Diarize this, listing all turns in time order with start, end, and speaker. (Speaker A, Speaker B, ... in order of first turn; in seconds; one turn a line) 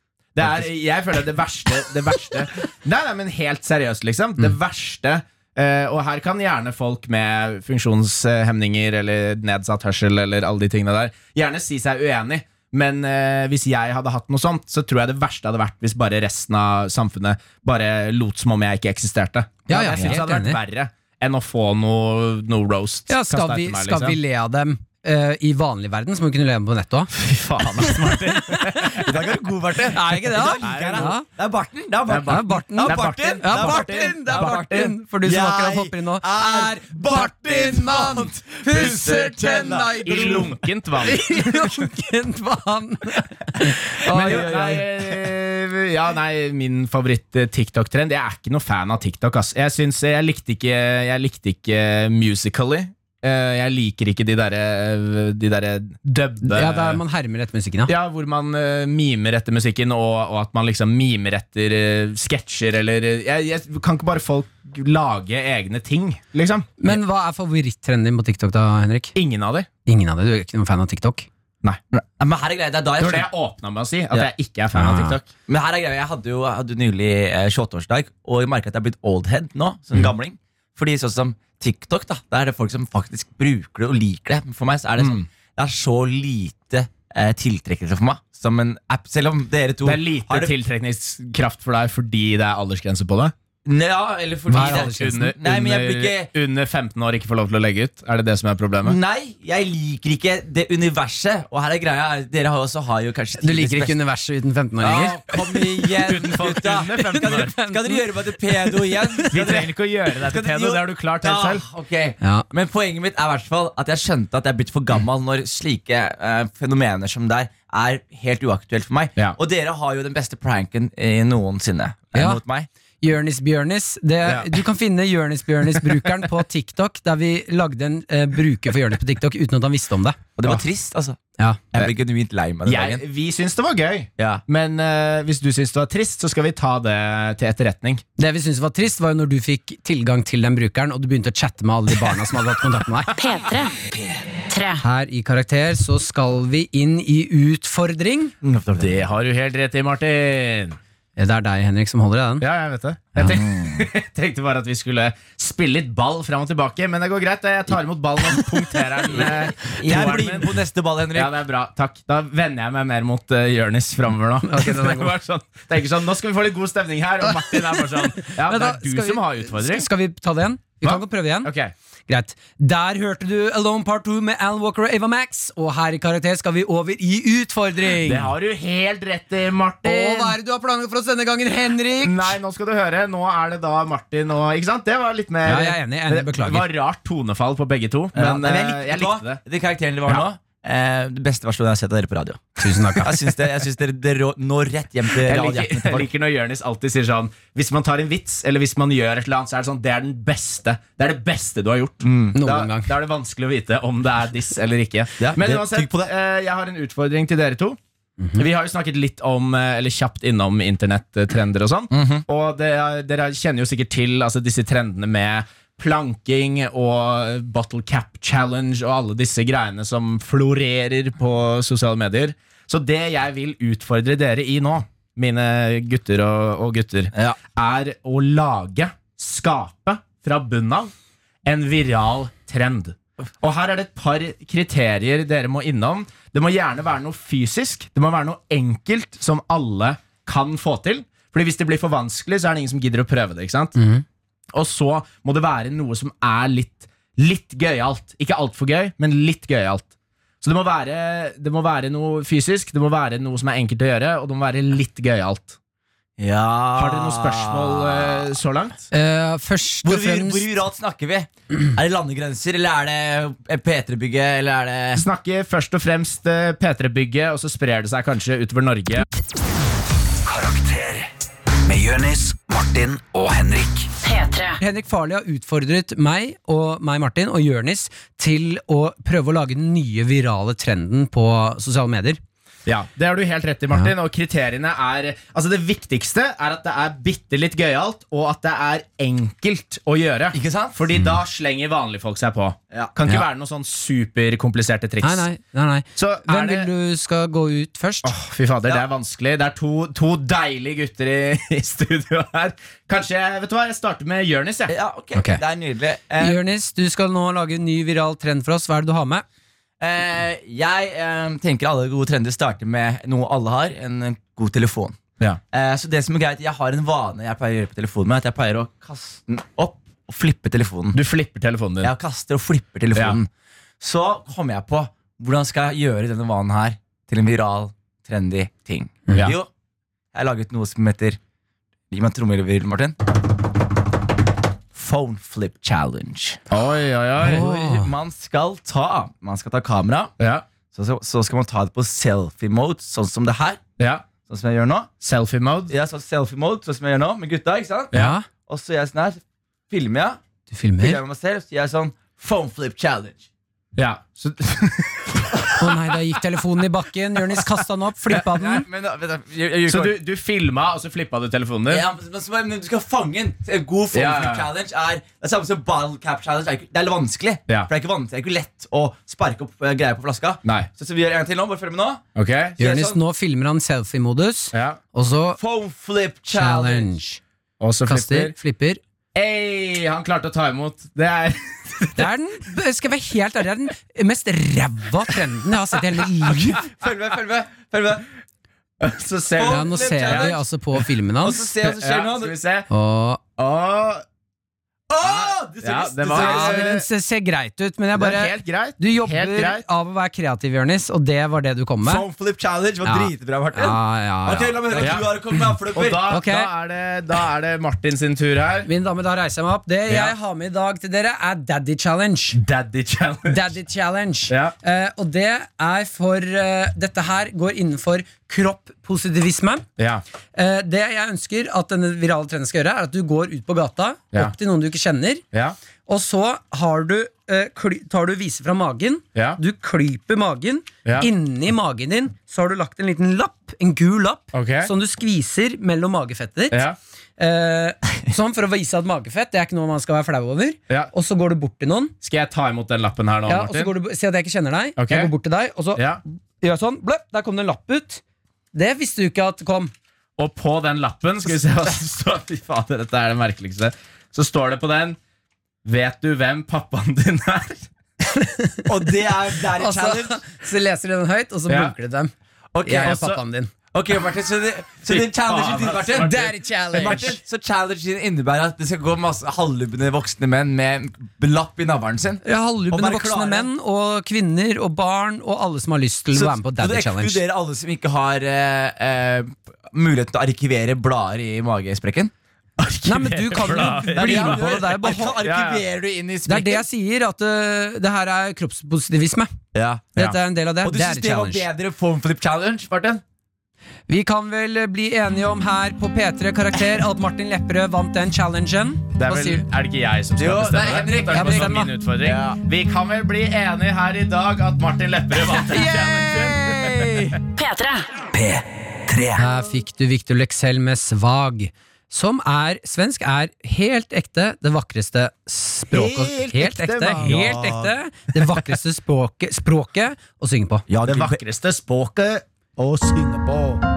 Speaker A: 0.3-24.2
Speaker B: 19.7-20.6
Speaker B: 23.1-27.1
Speaker A: 27.1-29.2
Speaker B: 27.8-29.0
Speaker C: 28.9-40.6
Speaker B: 29.9-31.3
Speaker A: 30.6-31.1
Speaker A: 32.1-34.9
Speaker B: 32.3-40.5
Speaker A: 39.9-41.8
Speaker B: 41.0-44.5
Speaker C: 44.1-45.2
Speaker A: 44.1-57.0
Speaker B: 56.4-57.9
Speaker A: 57.9-67.0
Speaker B: 66.8-69.1
Speaker A: 69.2-69.7
Speaker B: 69.9-71.3
Speaker C: 71.9-73.3
Speaker A: 73.0-75.3
Speaker B: 74.8-75.2
Speaker C: 75.5-90.5
Speaker A: 85.0-85.3
Speaker A: 89.8-93.3
Speaker C: 93.7-96.3
Speaker B: 94.5-95.3
Speaker A: 94.5-99.0
Speaker C: 98.8-104.0
Speaker B: 103.4-105.3
Speaker C: 104.8-122.7
Speaker A: 106.0-107.5
Speaker B: 107.0-109.3
Speaker A: 109.3-111.6
Speaker B: 112.2-112.5
Speaker B: 122.2-122.4
Speaker B: 123.0-130.2
Speaker A: 124.2-124.5
Speaker C: 130.4-131.2
Speaker C: 131.7-133.0
Speaker A: 132.7-138.0
Speaker C: 134.2-134.4
Speaker B: 138.2-143.1
Speaker D: 143.2-143.8
Speaker D: 144.5-144.8
Speaker B: 144.8-148.3
Speaker C: 148.4-149.0
Speaker A: 148.8-150.8
Speaker B: 151.2-152.5
Speaker A: 152.4-160.6
Speaker C: 153.3-153.8
Speaker C: 159.2-161.3
Speaker A: 161.1-169.9
Speaker B: 164.4-165.1
Speaker B: 167.5-171.5
Speaker A: 170.8-171.7
Speaker B: 172.1-178.3
Speaker A: 178.0-180.4
Speaker B: 179.8-182.4
Speaker A: 182.0-189.4
Speaker B: 185.4-186.7
Speaker C: 188.1-196.1
Speaker B: 192.6-193.2
Speaker A: 195.2-207.8
Speaker C: 202.0-202.4
Speaker B: 202.3-202.9
Speaker C: 205.2-206.1
Speaker A: 208.4-230.9
Speaker C: 211.9-212.2
Speaker A: 231.4-243.8
Speaker B: 243.8-244.1
Speaker A: 244.5-249.9
Speaker A: 250.4-255.6
Speaker C: 256.2-258.3
Speaker A: 256.8-258.9
Speaker B: 258.9-260.4
Speaker C: 259.8-265.0
Speaker A: 264.9-269.1
Speaker E: 270.2-271.1
Speaker E: 271.6-273.9
Speaker D: 274.0-274.6
Speaker B: 274.6-282.2
Speaker A: 282.7-295.3
Speaker C: 290.3-290.8
Speaker B: 295.0-298.1
Speaker A: 296.0-296.7
Speaker A: 298.0-304.7
Speaker C: 304.7-306.4
Speaker B: 306.2-309.2
Speaker C: 309.8-315.0
Speaker C: 315.5-321.0
Speaker A: 320.9-321.9
Speaker C: 321.8-323.3
Speaker A: 322.9-323.2
Speaker C: 323.8-329.5
Speaker C: 330.1-331.2
Speaker C: 331.9-333.0
Speaker C: 334.7-336.4
Speaker A: 336.5-337.5
Speaker B: 337.2-337.9
Speaker C: 337.2-340.1
Speaker A: 340.2-340.5
Speaker C: 340.7-343.6
Speaker A: 343.8-344.1
Speaker C: 344.2-344.9
Speaker A: 345.0-345.7
Speaker C: 345.7-350.2
Speaker B: 347.9-348.3
Speaker B: 350.5-351.0
Speaker C: 350.8-353.3
Speaker A: 353.8-355.8
Speaker B: 355.6-358.7
Speaker C: 358.3-359.9
Speaker A: 359.7-361.9
Speaker C: 361.7-372.0
Speaker A: 363.9-364.5
Speaker A: 370.4-370.7
Speaker A: 372.2-372.6
Speaker C: 372.6-373.0
Speaker B: 372.6-375.4
Speaker A: 374.5-374.8
Speaker C: 375.4-376.9
Speaker B: 376.3-377.2
Speaker A: 377.6-378.3
Speaker B: 377.9-378.8
Speaker A: 379.1-382.1
Speaker B: 382.0-386.6
Speaker C: 386.2-388.1
Speaker A: 388.8-390.3
Speaker C: 389.4-390.4
Speaker B: 389.5-391.4
Speaker C: 391.2-392.4
Speaker A: 391.6-392.7
Speaker B: 392.7-393.2
Speaker A: 393.4-394.1
Speaker C: 394.9-396.7
Speaker A: 395.0-396.9
Speaker B: 396.1-402.1
Speaker A: 397.9-399.6
Speaker C: 401.8-406.1
Speaker B: 402.9-405.1
Speaker A: 404.8-405.1
Speaker A: 405.7-408.7
Speaker B: 406.1-406.5
Speaker B: 408.6-412.4
Speaker A: 409.9-410.1
Speaker A: 412.3-413.5
Speaker B: 413.3-419.7
Speaker A: 414.3-414.6
Speaker A: 419.8-420.0
Speaker B: 420.3-425.2
Speaker B: 425.9-436.6
Speaker A: 429.1-429.4
Speaker A: 434.3-434.7
Speaker A: 436.5-436.8
Speaker B: 437.2-441.9
Speaker A: 442.0-443.7
Speaker B: 443.3-448.0
Speaker A: 444.8-445.1
Speaker A: 445.8-446.0
Speaker B: 448.5-449.7
Speaker A: 450.2-455.0
Speaker A: 455.6-457.7
Speaker B: 458.1-458.9
Speaker C: 458.7-460.2
Speaker B: 459.5-462.1
Speaker A: 461.5-461.7
Speaker C: 462.5-463.0
Speaker B: 462.6-463.5
Speaker A: 462.8-463.2
Speaker C: 463.7-466.2
Speaker A: 464.9-467.1
Speaker B: 465.9-467.2
Speaker C: 466.7-473.5
Speaker B: 472.2-477.2
Speaker C: 476.1-482.1
Speaker A: 482.6-485.6
Speaker B: 482.9-485.2
Speaker C: 483.9-486.6
Speaker B: 486.3-489.3
Speaker C: 489.5-489.9
Speaker B: 490.0-491.4
Speaker C: 490.6-493.0
Speaker B: 493.9-499.4
Speaker A: 499.0-507.1
Speaker C: 500.2-502.4
Speaker B: 501.1-501.7
Speaker B: 505.2-507.2
Speaker D: 507.4-507.9
Speaker E: 508.1-509.2
Speaker B: 509.2-520.6
Speaker A: 515.7-517.4
Speaker C: 517.0-517.7
Speaker C: 520.7-521.2
Speaker A: 520.9-523.5
Speaker C: 522.8-523.6